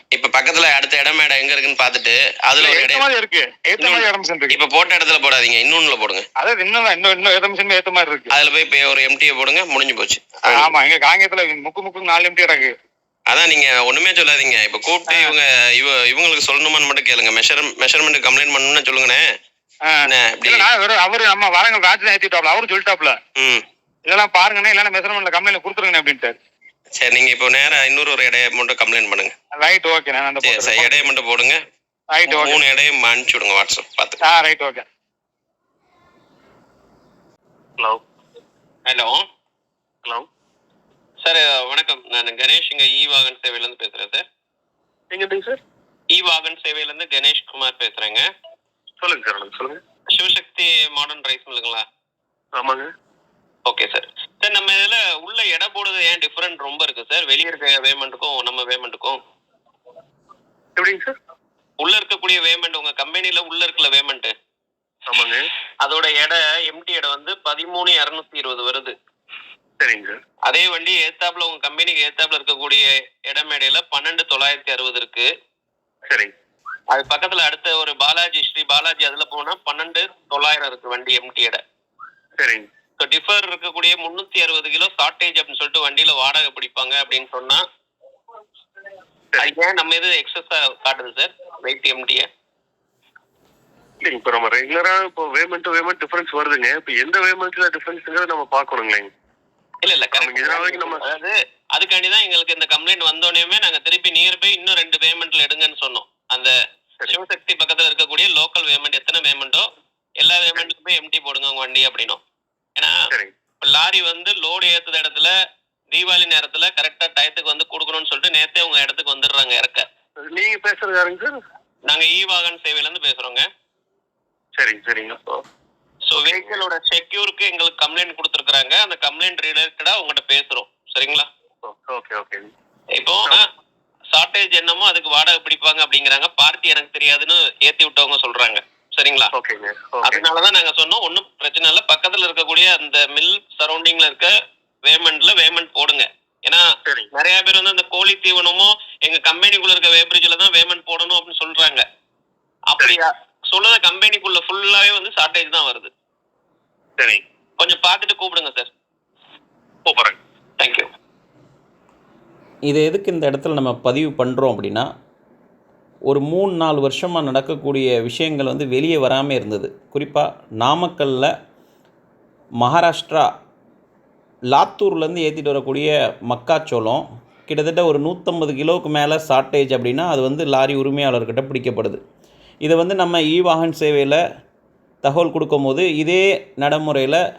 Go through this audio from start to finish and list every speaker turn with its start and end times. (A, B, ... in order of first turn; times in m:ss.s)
0:00.1-0:03.0 A
0:02.6-0:04.6 B
0:03.8-0:06.3 A
0:06.4-0:08.3 B
0:08.3-0:10.7 A
0:10.5-0:12.7 B
0:13.3-0:19.2 A
0:15.1-0:15.4 B
0:19.8-0:23.2 B
0:20.0-0:20.7 A
0:23.4-0:23.6 A
0:24.1-0:26.4 B
0:27.0-0:29.3 A
0:29.6-0:31.0 B
0:30.4-0:31.6 A
0:32.1-0:32.6 B
0:32.3-0:34.2 A
0:34.2-0:34.8 B
0:38.9-0:39.2 A
0:41.2-0:44.2 A
0:45.1-0:45.6 C
0:46.1-0:48.2 A
0:49.0-0:49.8 C
0:50.1-0:51.8 A
0:52.6-0:52.9 C
0:53.6-0:59.2 A
1:00.8-1:01.1 C
1:01.8-1:04.3 A
1:05.1-1:05.5 C
1:05.8-1:09.0 A
1:09.8-1:10.2 C
1:10.5-1:15.3 A
1:16.9-1:21.6 A
1:22.4-1:22.7 C
1:23.0-1:27.6 A
1:29.4-1:32.3 A
1:34.0-1:39.1 C
1:39.8-1:46.5 A
1:40.1-1:41.1 C
1:47.1-1:49.7 A
1:50.2-1:52.2 A
1:53.6-1:55.3 A
1:55.9-1:59.8 A
2:00.2-2:01.4 C
2:01.9-2:03.4 A
2:04.6-2:05.4 C
2:06.1-2:11.3 A
2:06.2-2:06.6 C
2:11.6-2:12.5 C
2:13.0-2:13.4 A
2:14.1-2:19.3 A
2:19.3-2:20.3 C
2:20.0-2:24.3 A
2:24.9-2:31.8 A
2:32.7-2:35.9 A
2:37.6-2:38.7 A
2:39.9-2:40.2 C
2:40.6-2:40.8 A
2:42.7-2:44.9 D
2:46.1-2:51.3 D
2:52.6-2:53.3 D
2:54.5-3:02.0 D
3:02.6-3:04.2 D
3:05.0-3:07.2 D